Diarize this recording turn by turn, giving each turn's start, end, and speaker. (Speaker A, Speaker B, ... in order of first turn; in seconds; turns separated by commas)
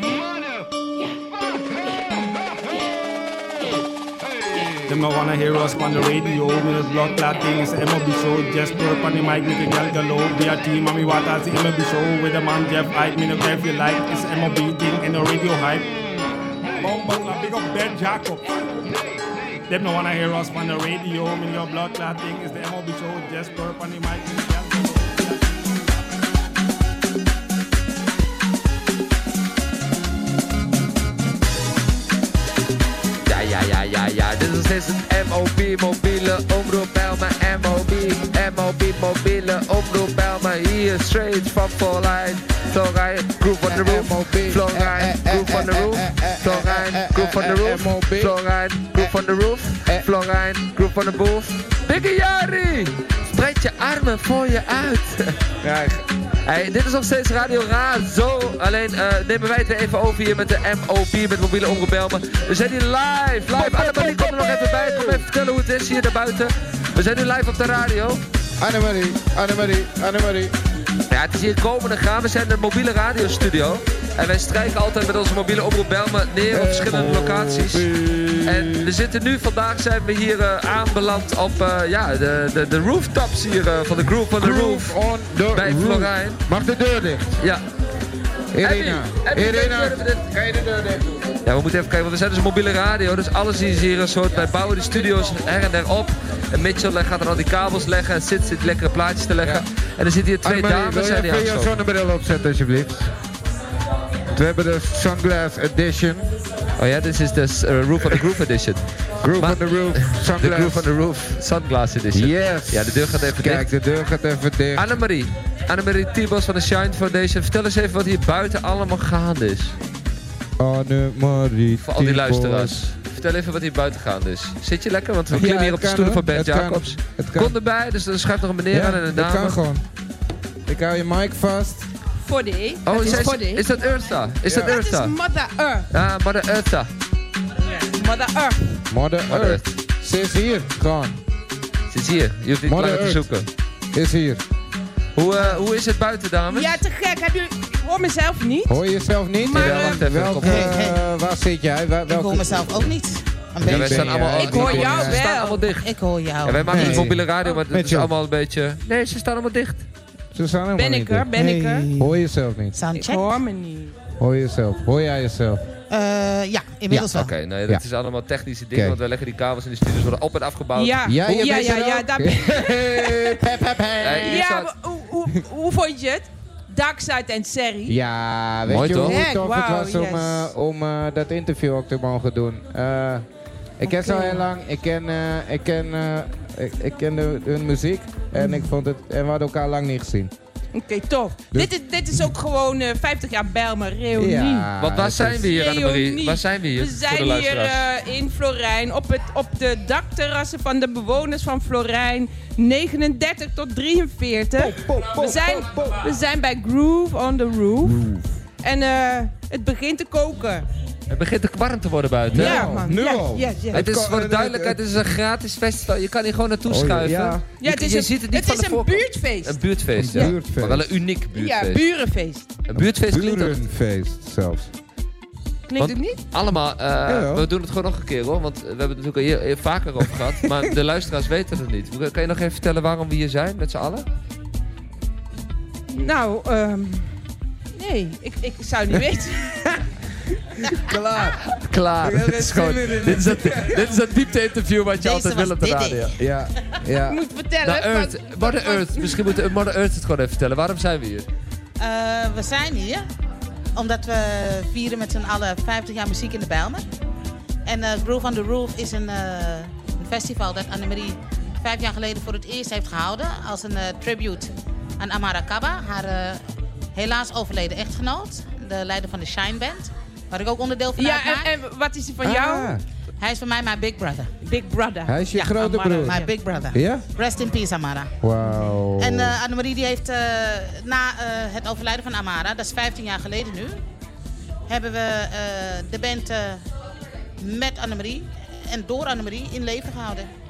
Speaker A: 4.9-15.9, Speaker A: 16.8-18.5, Speaker A: 19.7-25.9, Speaker B: 33.2-55.4, Speaker C: 43.6-48.4, Speaker C: 55.6-56.0, Speaker B: 56.4-68.2, Speaker C: 63.5-65.2, Speaker C: 68.6-70.5, Speaker B: 71.1-77.9, Speaker C: 76.5-78.9, Speaker B: 78.4-85.0, Speaker C: 84.4-87.4, Speaker B: 85.5-86.4, Speaker B: 87.4-87.6, Speaker C: 88.5-91.3, Speaker B: 88.6-90.2, Speaker B: 91.4-101.8, Speaker C: 100.4-103.1, Speaker C: 104.3-106.3, Speaker B: 106.8-108.8, Speaker C: 109.2-110.9, Speaker B: 109.3-113.7, Speaker C: 112.1-114.9, Speaker B: 114.7-119.7, Speaker C: 120.6-122.8, Speaker B: 121.8-129.6, Speaker C: 125.3-127.5, Speaker C: 128.7-129.8, Speaker C: 130.7-131.9, Speaker D: 132.2-133.7, Speaker B: 132.8-135.2, Speaker C: 134.4-134.7, Speaker D: 134.6-135.9, Speaker B: 135.9-136.9, Speaker D: 137.7-138.8, Speaker C: 138.9-141.2, Speaker B: 139.3-139.6, Speaker B: 141.9-143.5, Speaker C: 142.6-143.3, Speaker C: 143.9-144.4, Speaker B: 145.2-146.8, Speaker E: 145.3-145.6, Speaker D: 146.5-148.8, Speaker C: 148.7-152.9, Speaker D: 149.4-150.1, Speaker B: 149.5-150.8, Speaker E: 150.4-151.0, Speaker E: 152.1-154.3, Speaker B: 153.6-159.8, Speaker C: 153.6-155.2, Speaker D: 154.3-155.7, Speaker E: 155.8-157.1, Speaker C: 156.7-158.1, Speaker C: 160.3-161.3, Speaker D: 160.8-161.9, Speaker E: 161.3-162.2, Speaker C: 161.9-162.8, Speaker E: 162.7-163.4, Speaker D: 162.9-163.9, Speaker C: 164.2-165.7, Speaker E: 165.9-167.3, Speaker B: 167.1-171.0, Speaker D: 170.7-173.5, Speaker C: 171.0-174.4, Speaker B: 174.0-174.7, Speaker D: 174.2-178.0, Speaker C: 177.9-183.2, Speaker B: 178.7-179.2, Speaker D: 179.0-180.5, Speaker C: 183.8-190.3, Speaker D: 183.8-184.4, Speaker D: 188.3-188.7, Speaker D: 190.7-194.7, Speaker C: 194.2-195.5, Speaker B: 194.8-197.9, Speaker D: 195.4-210.7, Speaker C: 204.6-206.0, Speaker C: 207.8-208.3, Speaker B: 211.1-212.8, Speaker C: 212.3-214.8, Speaker D: 212.3-213.9, Speaker B: 213.7-221.8, Speaker C: 216.7-217.4, Speaker D: 217.6-220.3, Speaker C: 219.9-220.9, Speaker D: 221.3-222.5, Speaker B: 222.7-223.6, Speaker C: 222.7-224.7, Speaker D: 225.7-226.2, Speaker B: 225.8-234.1, Speaker C: 227.1-227.5, Speaker D: 235.9-237.1, Speaker D: 237.7-239.8, Speaker C: 240.7-241.4, Speaker B: 241.2-246.2, Speaker C: 242.0-243.9, Speaker E: 245.0-246.3, Speaker C: 246.2-247.2, Speaker D: 247.1-249.4, Speaker B: 247.6-251.3, Speaker E: 251.8-253.0, Speaker E: 253.7-256.8, Speaker E: 257.6-266.4, Speaker E: 266.9-271.5, Speaker D: 270.9-272.8, Speaker C: 272.2-272.8, Speaker E: 273.2-274.3, Speaker D: 274.4-275.2, Speaker C: 275.1-276.2, Speaker E: 275.3-278.1, Speaker D: 276.0-276.4, Speaker C: 276.7-277.1, Speaker C: 278.2-279.4, Speaker D: 278.4-278.7, Speaker E: 279.0-283.8, Speaker E: 284.7-286.6, Speaker E: 287.4-290.3